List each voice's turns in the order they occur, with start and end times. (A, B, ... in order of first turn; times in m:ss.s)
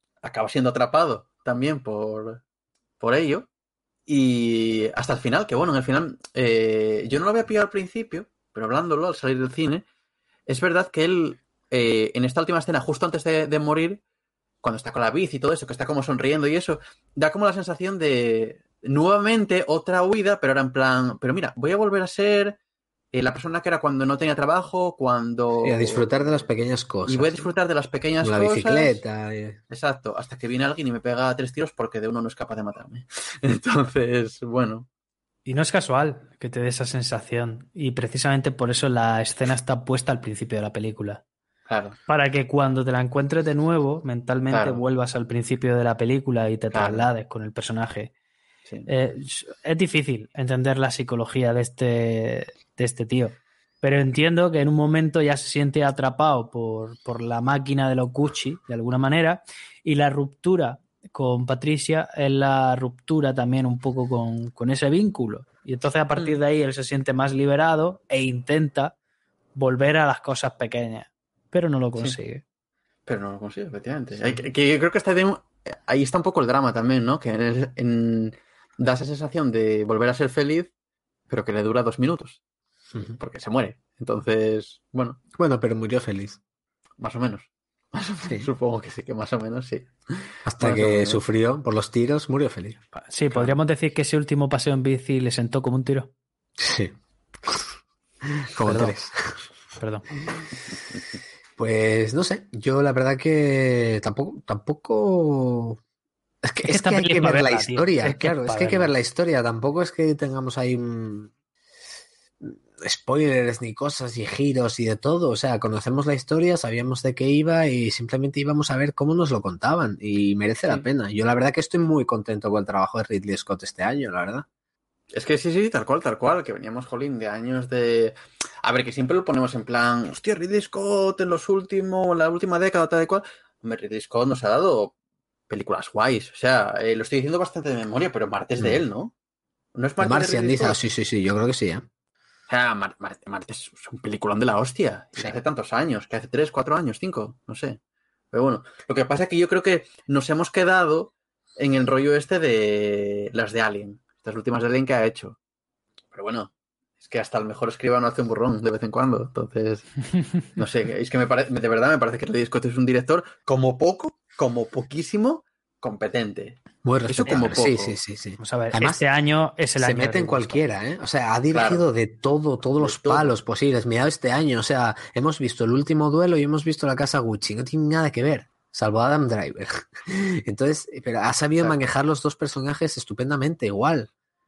0:00.2-0:02.4 A
0:03.0-0:03.4 A
0:04.1-0:09.8 A
0:10.5-0:14.0 A
0:14.6-0:22.6 A
0:23.1-0:26.1 A
0:25.6-0:27.5 B
0:27.0-0:29.0 A
0:28.2-0:29.6 B
0:29.7-0:34.9 A
0:35.4-0:41.2 C
0:41.7-0:42.0 A
0:42.1-0:48.1 C
0:44.5-0:44.8 A
0:46.7-0:47.1 A
0:48.9-1:08.9 C
1:09.5-1:12.4 C
1:13.1-1:20.7 A
1:21.3-1:22.4 A
1:23.2-1:25.2 A
1:25.4-1:26.4 B
1:27.0-1:29.9 A
1:30.4-1:32.8 B
1:30.6-1:31.2 A
1:33.0-1:36.1 C
1:36.6-1:37.7 B
1:38.3-1:39.4 B
1:38.6-1:38.9 C
1:39.8-1:40.0 C
1:41.6-1:45.8 B
1:46.4-1:51.3 B
1:46.6-1:48.9 C
1:52.4-2:04.4 B
2:05.1-2:14.9 A
2:15.5-2:19.1 A
2:18.6-2:18.8 B
2:19.7-2:20.8 A
2:20.0-2:21.8 B
2:22.5-2:27.8 A
2:28.3-2:35.4 A
2:36.1-2:36.5 A
2:37.0-2:39.9 A
2:40.6-2:46.6 A
2:46.8-2:49.0 B
2:47.1-2:48.0 A
2:48.4-2:50.6 C
2:49.8-3:04.1 B
2:51.5-2:51.8 A
2:52.8-2:53.3 A